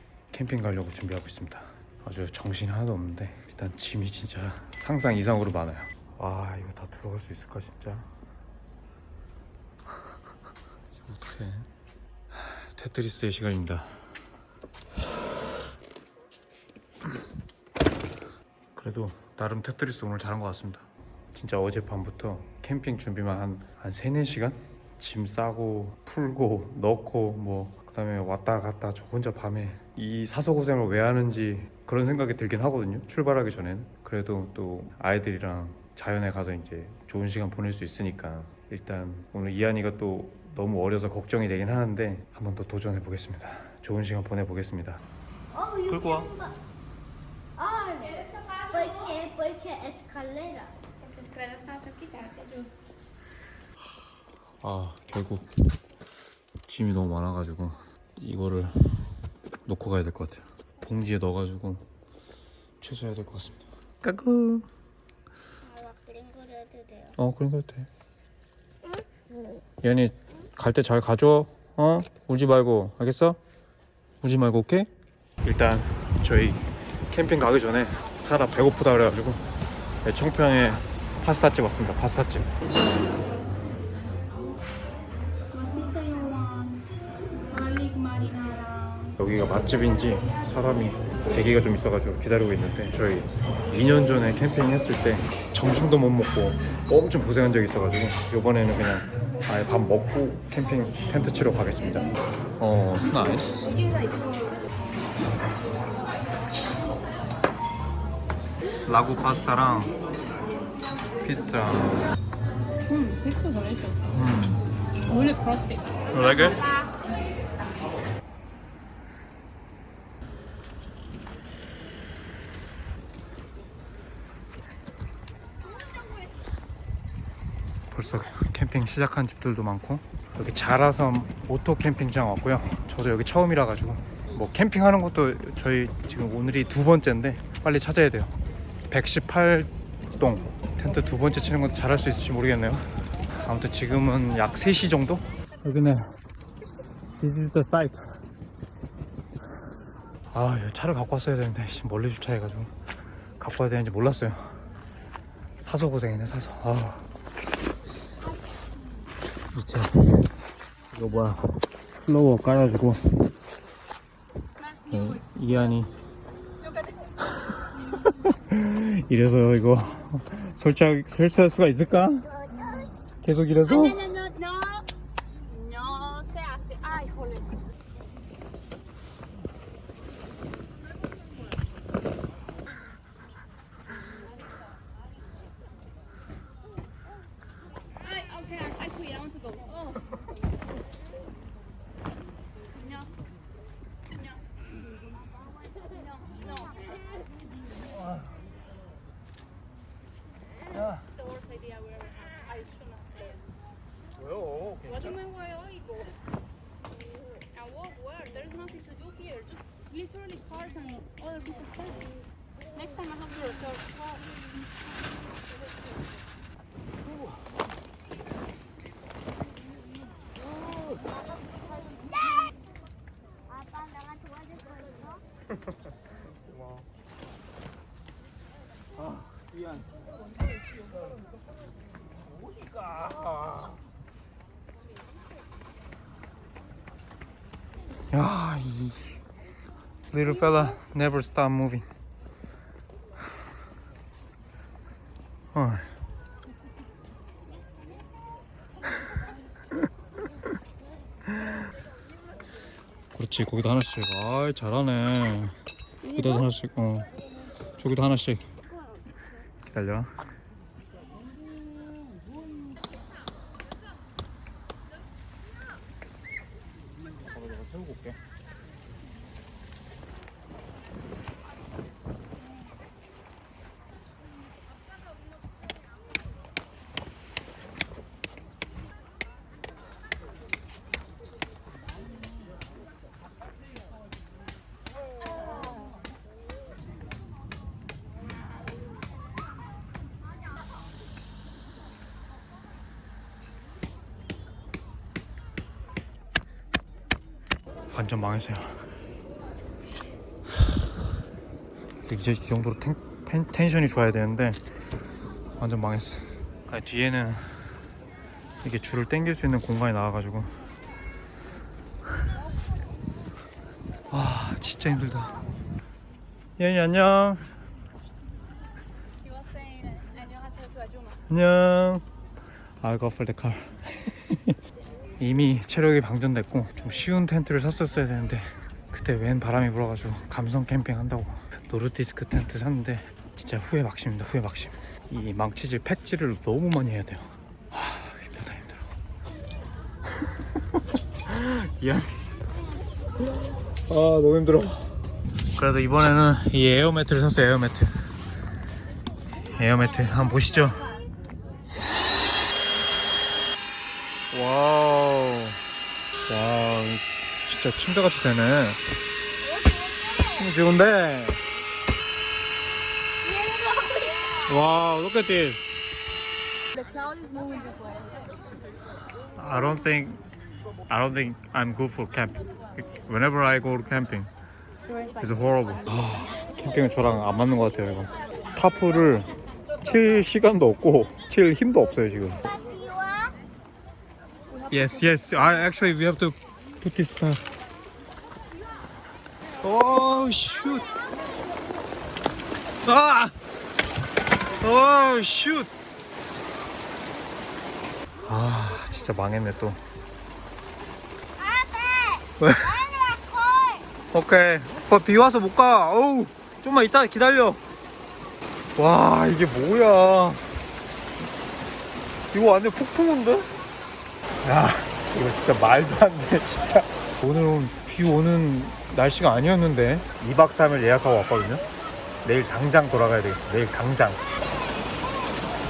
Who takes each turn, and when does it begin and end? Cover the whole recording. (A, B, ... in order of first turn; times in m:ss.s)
0:00.3-0:08.1 A
0:11.0-0:11.7 A
0:12.3-0:14.0 A
0:18.8-0:45.0 A
0:45.5-0:46.6 B
0:45.9-0:46.3 A
0:47.6-0:50.8 B
0:48.4-0:48.8 C
0:51.0-0:52.7 C
0:54.6-0:55.5 A
0:56.7-0:59.1 A
0:59.6-1:01.8 A
1:02.8-1:04.7 A
1:05.6-1:07.2 B
1:07.2-1:07.9 A
1:08.8-1:09.6 B
1:09.8-1:13.4 A
1:14.2-1:14.9 A
1:15.4-1:19.4 A
1:20.0-1:22.5 A
1:25.5-1:26.9 C
1:27.5-1:29.2 C
1:29.2-1:43.8 A
1:48.8-1:49.9 A
1:51.2-1:52.0 A
1:52.8-1:54.1 C
1:54.1-1:54.6 A
1:55.1-1:56.7 C
1:56.1-1:56.6 A
2:07.9-2:18.3 A
2:18.9-2:26.0 A
2:27.2-2:28.2 A
2:30.3-2:32.7 A
2:33.4-2:34.6 A
2:35.6-2:37.0 A
2:39.5-2:40.3 A
2:40.9-2:43.3 A
2:44.6-2:45.8 C
2:44.9-2:45.9 A
2:46.6-2:47.1 C
2:47.2-2:52.3 A
2:47.8-2:48.1 C
2:52.3-2:52.9 B
2:53.2-2:54.0 A
2:53.6-2:54.9 C
2:55.5-2:57.6 C
3:08.0-3:10.1 C
3:12.8-3:13.1 C
3:16.0-3:16.7 C
3:21.1-3:23.5 C
3:24.2-3:25.2 A
3:24.8-3:26.2 C
3:27.5-3:32.1 C
3:32.7-3:34.3 C
3:43.5-3:45.2 B
3:58.1-3:59.2 A
4:00.1-4:01.8 A
4:05.5-4:05.9 A
4:13.1-4:15.6 A
4:16.0-4:16.5 B
4:16.1-4:17.1 A
4:17.8-4:18.4 A
4:18.7-4:19.2 B
4:19.6-4:20.1 A
4:27.2-4:28.2 A
4:57.9-4:58.8 A
5:02.0-5:04.6 A
5:05.6-5:07.6 A
5:08.6-5:10.6 A
5:14.1-5:15.4 A
5:16.6-5:17.5 A
5:19.2-5:21.2 C
5:21.3-5:22.0 A
5:22.8-5:24.6 A
5:25.2-5:38.9 A
5:41.2-5:42.3 A
5:43.8-5:48.0 A
5:49.5-5:50.8 A
5:54.3-5:55.6 A
5:56.3-5:58.8 A
5:59.4-6:00.5 B
6:00.4-6:01.4 A
6:03.2-6:04.6 B
6:04.4-6:05.6 A
6:06.7-6:08.2 C
6:09.3-6:10.2 A
6:10.9-6:14.3 A
6:14.9-6:15.9 C
6:15.2-6:22.4 A
6:22.4-6:23.4 B
6:24.5-6:25.6 C
6:24.7-6:27.5 A
6:29.6-6:30.9 A
6:32.8-6:33.3 A
6:34.6-6:35.7 A
6:38.2-6:39.8 A
6:41.4-6:43.9 B
6:42.4-6:42.8 A
6:44.1-6:47.6 A
6:48.8-6:50.4 A
6:52.3-6:53.5 A
6:54.4-7:01.6 A
7:02.2-7:04.2 A